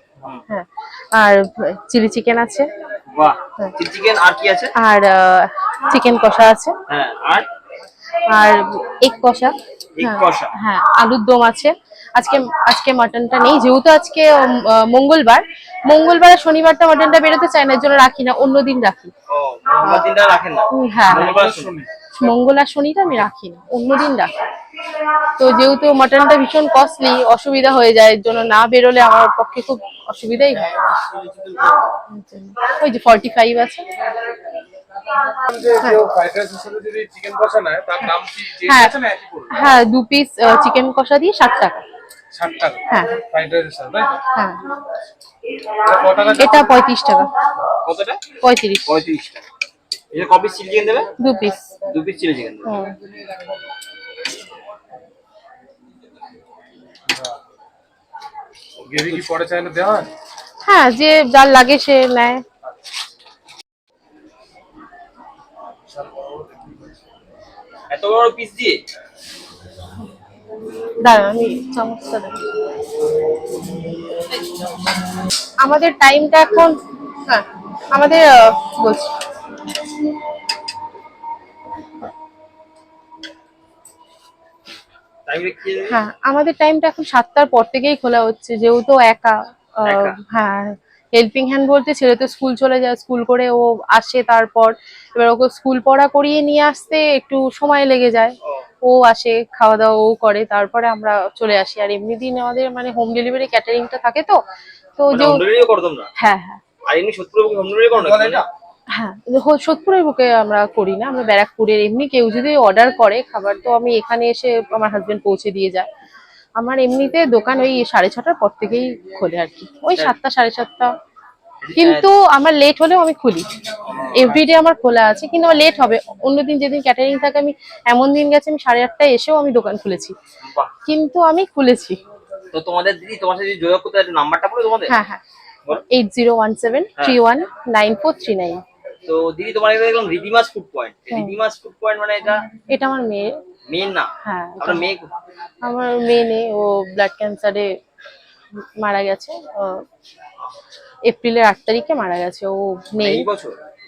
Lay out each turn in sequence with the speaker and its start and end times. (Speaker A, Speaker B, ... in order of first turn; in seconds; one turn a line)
Speaker A: 0.5-2.7
Speaker B: 3.1-4.7
Speaker A: 4.7-6.7
Speaker B: 6.9-7.5
Speaker A: 8.3-19.1
Speaker B: 10.0-10.5
Speaker B: 19.3-21.7
Speaker A: 20.7-21.4
Speaker C: 21.1-21.9
Speaker A: 22.1-24.3
Speaker A: 25.4-31.0
Speaker A: 32.0-33.9
Speaker C: 35.3-39.6
Speaker A: 38.7-38.9
Speaker A: 39.5-41.8
Speaker C: 42.3-44.2
Speaker A: 42.9-43.2
Speaker A: 44.3-44.6
Speaker C: 45.8-46.7
Speaker A: 46.4-47.3
Speaker B: 47.8-48.2
Speaker A: 48.4-48.9
Speaker B: 48.9-49.4
Speaker B: 50.1-51.1
Speaker A: 51.2-51.8
Speaker B: 51.9-52.7
Speaker A: 52.6-53.0
Speaker C: 57.1-57.4
Speaker C: 58.8-60.1
Speaker A: 60.6-62.4
Speaker C: 65.9-67.0
Speaker B: 67.9-68.8
Speaker A: 71.0-72.4
Speaker A: 75.6-79.1
Speaker B: 85.3-86.0
Speaker A: 85.9-104.4
Speaker B: 89.8-90.2
Speaker A: 105.0-105.4
Speaker B: 105.1-106.1
Speaker A: 106.2-106.6
Speaker B: 106.8-108.4
Speaker C: 108.0-108.4
Speaker A: 108.9-115.9
Speaker A: 116.6-120.9
Speaker B: 121.6-122.1
Speaker A: 121.8-123.5
Speaker B: 123.9-124.4
Speaker A: 124.2-130.1
Speaker B: 130.4-130.7
Speaker A: 130.8-132.0
Speaker B: 132.5-134.9
Speaker A: 134.9-135.2
Speaker A: 135.7-138.6
Speaker B: 139.1-142.4
Speaker A: 142.7-143.3
Speaker B: 143.7-145.1
Speaker A: 144.2-144.8
Speaker A: 145.6-147.7
Speaker A: 148.8-149.8
Speaker A: 151.1-153.2
Speaker B: 153.0-153.6